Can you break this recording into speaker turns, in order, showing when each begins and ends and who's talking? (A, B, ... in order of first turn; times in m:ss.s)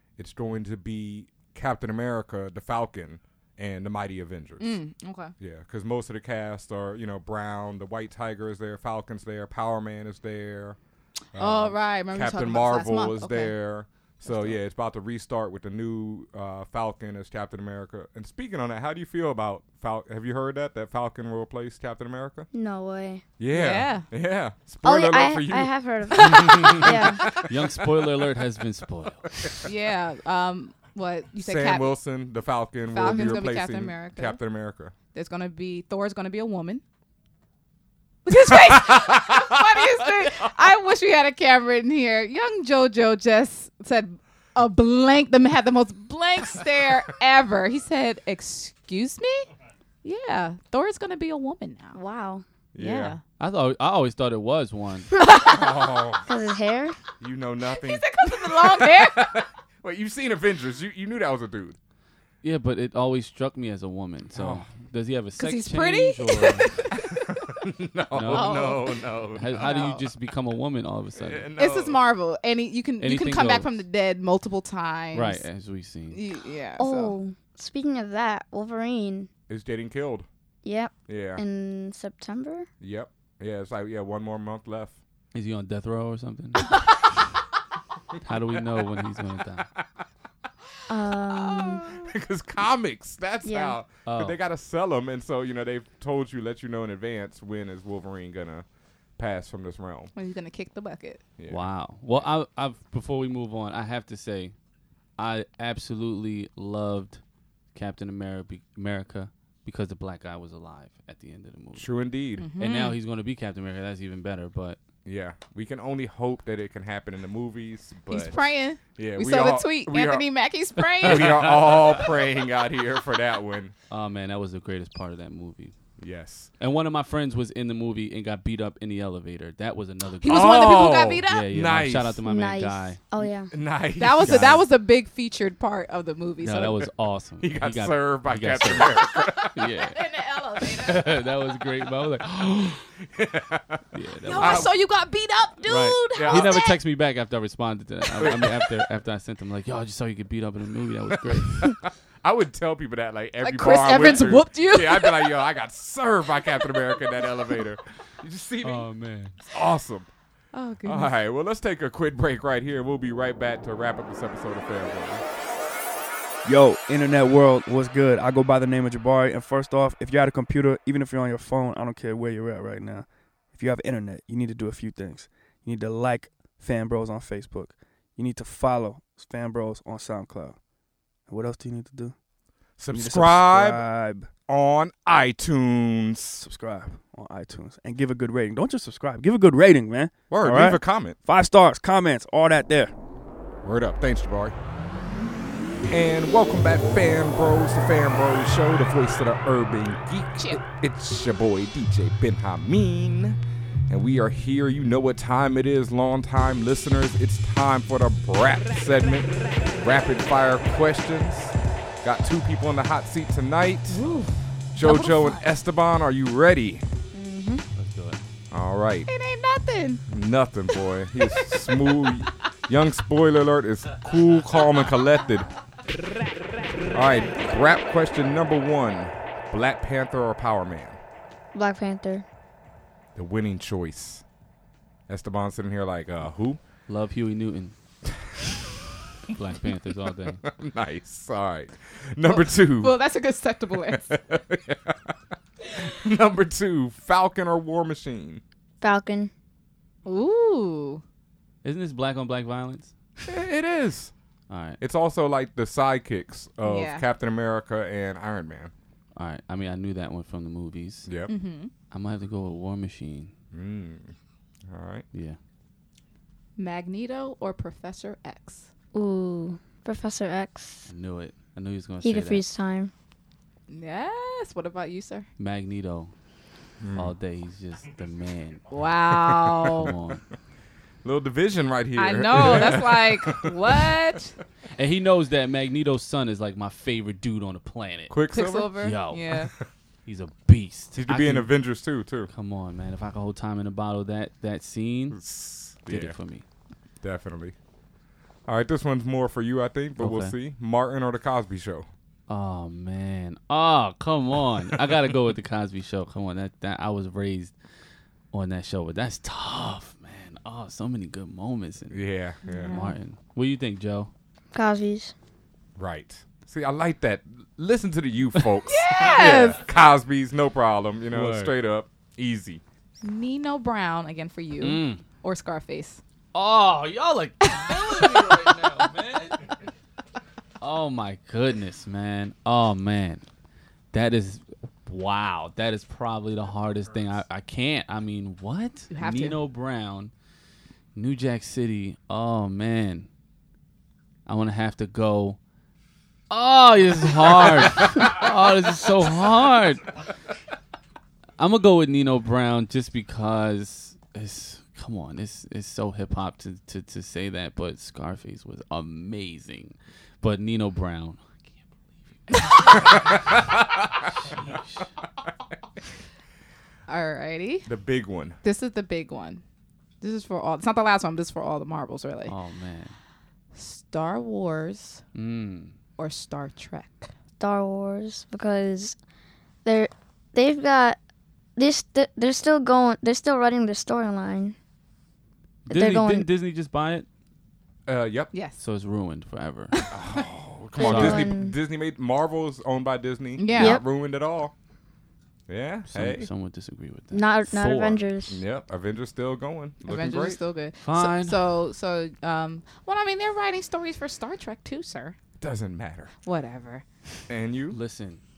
0:00.2-0:04.8 A
0:04.6-0:05.3 B
0:05.4-0:10.8 A
0:11.3-0:22.5 A
0:11.4-0:13.5 B
0:14.2-0:14.6 B
0:22.5-0:23.2 C
0:23.4-0:27.5 A
0:23.5-0:24.1 B
0:24.8-0:27.3 C
0:26.2-0:26.8 B
0:27.4-0:29.4 D
0:29.6-0:31.9 B
0:31.4-0:34.9 A
0:32.9-0:34.4 B
0:33.0-0:33.4 C
0:35.1-0:36.8 B
0:38.2-0:49.5 B
0:38.4-0:40.4 A
0:50.0-0:52.0 B
0:51.9-0:52.4 C
0:52.7-0:53.2 A
0:52.8-0:53.2 B
0:53.4-0:55.1 D
0:55.4-0:56.2 A
0:56.2-0:57.0 C
0:57.2-1:01.8 A
0:57.7-0:59.4 B
1:02.4-1:06.8 D
1:04.3-1:04.7 A
1:05.4-1:07.2 B
1:07.1-1:09.9 A
1:08.1-1:08.7 D
1:08.3-1:09.0 B
1:09.3-1:11.4 D
1:09.5-1:10.0 B
1:11.2-1:12.0 A
1:11.6-1:15.4 B
1:13.0-1:13.8 D
1:15.1-1:16.2 D
1:16.1-1:17.1 B
1:16.8-1:19.3 C
1:19.5-1:20.3 A
1:20.6-1:22.7 C
1:21.1-1:21.4 A
1:22.8-1:25.0 A
1:25.3-1:27.0 D
1:28.2-1:29.7 D
1:30.9-1:31.8 C
1:31.3-1:32.0 B
1:32.0-1:38.6 A
1:33.4-1:33.8 C
1:34.0-1:34.4 D
1:39.2-1:40.1 A
1:40.1-1:41.2 B
1:41.4-1:41.6 A
1:41.5-1:44.5 D
1:45.2-1:47.2 D
1:47.7-1:51.9 D
1:51.8-1:52.5 A
1:52.4-1:53.0 B
1:52.6-1:54.8 D
1:55.0-1:58.4 A
1:58.1-2:01.5 B
1:59.0-2:00.2 A
2:01.0-2:03.7 A
2:03.9-2:05.7 D
2:06.0-2:06.5 A
2:06.6-2:13.0 D
2:10.2-2:11.5 B
2:10.3-2:12.2 A
2:12.2-2:13.5 C
2:13.2-2:14.6 A
2:14.0-2:16.9 B
2:14.2-2:14.5 D
2:16.4-2:19.0 D
2:17.4-2:19.6 A
2:19.5-2:20.0 D
2:19.9-2:21.3 B
2:20.8-2:22.8 D
2:22.5-2:23.8 A
2:23.9-2:24.7 D
2:24.2-2:26.8 B
2:24.4-2:24.7 A
2:25.7-2:31.8 D
2:26.1-2:26.6 A
2:28.2-2:28.5 A
2:31.5-2:38.9 A
2:33.4-2:35.4 B
2:38.6-2:39.4 D
2:39.4-2:40.1 A
2:40.5-2:41.1 B
2:40.8-2:45.2 A
2:46.4-3:00.6 E
3:01.3-3:02.1 E
3:02.8-3:03.8 A
3:02.9-3:04.3 E
3:04.5-3:06.4 A
3:06.4-3:12.9 E
3:10.3-3:11.2 A
3:13.6-3:14.5 A
3:15.9-3:34.0 A
3:33.9-3:35.4 B
3:34.7-3:36.8 A
3:37.1-3:37.6 C
3:37.8-3:38.2 D
3:38.5-3:39.1 A
3:39.1-3:40.0 B
3:40.1-3:45.5 A
3:46.9-3:51.0 A
3:51.5-3:52.2 C
3:53.1-3:54.2 A
3:55.1-3:56.6 A
3:56.9-3:57.7 D
3:59.3-4:00.4 D
4:00.4-4:02.9 A
4:02.2-4:04.1 B
4:03.9-4:05.0 A
4:05.8-4:08.4 A
4:08.8-4:09.3 C
4:10.0-4:11.0 B
4:11.6-4:12.9 D
4:13.2-4:14.1 A
4:14.5-4:14.8 D
4:14.8-4:18.7 A
4:16.6-4:17.0 B
4:19.2-4:21.1 D
4:21.1-4:21.3 A
4:21.3-4:21.7 B
4:21.9-4:23.3 D
4:23.5-4:24.1 A
4:24.7-4:25.0 A
4:25.1-4:25.4 D
4:26.6-4:28.7 B
4:28.9-4:30.9 C
4:30.9-4:32.4 D
4:32.0-4:32.9 C
4:33.7-4:35.3 B
4:35.4-4:36.1 D
4:36.8-4:37.1 A
4:36.9-4:38.7 D
4:38.7-4:39.9 B
4:39.3-4:39.9 A
4:39.8-4:40.2 D
4:41.0-4:43.5 A
4:42.0-4:44.3 B
4:44.8-4:48.1 D
4:48.1-4:48.7 A
4:48.3-4:49.5 B
4:48.8-4:49.4 D
4:50.0-4:51.5 D
4:51.0-4:52.3 A
4:52.3-4:55.2 D
4:55.1-4:56.2 A
4:55.9-4:56.4 D
4:57.0-4:57.5 A
4:58.5-5:01.9 A
5:00.0-5:00.3 D
5:02.3-5:07.5 D
5:08.3-5:14.1 D
5:11.9-5:12.7 A
5:12.4-5:12.9 B
5:14.5-5:15.1 C
5:15.8-5:22.6 A
5:18.7-5:19.6 B
5:19.1-5:19.4 D
5:21.1-5:21.5 D
5:23.0-5:26.0 B
5:24.6-5:25.0 D
5:26.3-5:29.5 D
5:27.4-5:28.9 B
5:30.6-5:33.2 D
5:33.9-5:40.1 D
5:38.9-5:39.4 B
5:40.9-5:43.1 D
5:44.2-5:45.4 D
5:46.3-5:50.0 D
5:51.4-6:03.3 D
6:02.7-6:04.0 A
6:04.2-6:04.8 D
6:06.9-6:07.7 B
6:07.6-6:08.4 A
6:08.4-6:09.4 B
6:10.0-6:12.3 B
6:12.2-6:13.0 D
6:13.5-6:15.0 B
6:15.1-6:15.7 D
6:16.0-6:17.1 B
6:17.4-6:19.0 C
6:19.6-6:21.0 C
6:21.6-6:24.6 C
6:25.7-6:27.1 D
6:25.7-6:26.3 C
6:27.9-6:28.3 A
6:28.3-6:28.6 B
6:28.6-6:29.8 D
6:29.9-6:34.5 A
6:30.8-6:31.5 C
6:30.8-6:31.3 D
6:33.4-6:33.8 B
6:33.5-6:33.8 C
6:35.5-6:36.3 A
6:35.9-6:38.0 D
6:37.1-6:38.4 C
6:38.3-6:40.4 A
6:39.8-6:45.2 B
6:40.8-6:41.4 D
6:45.4-6:46.1 A
6:46.2-6:46.8 B
6:47.3-6:47.8 A
6:47.7-6:48.2 D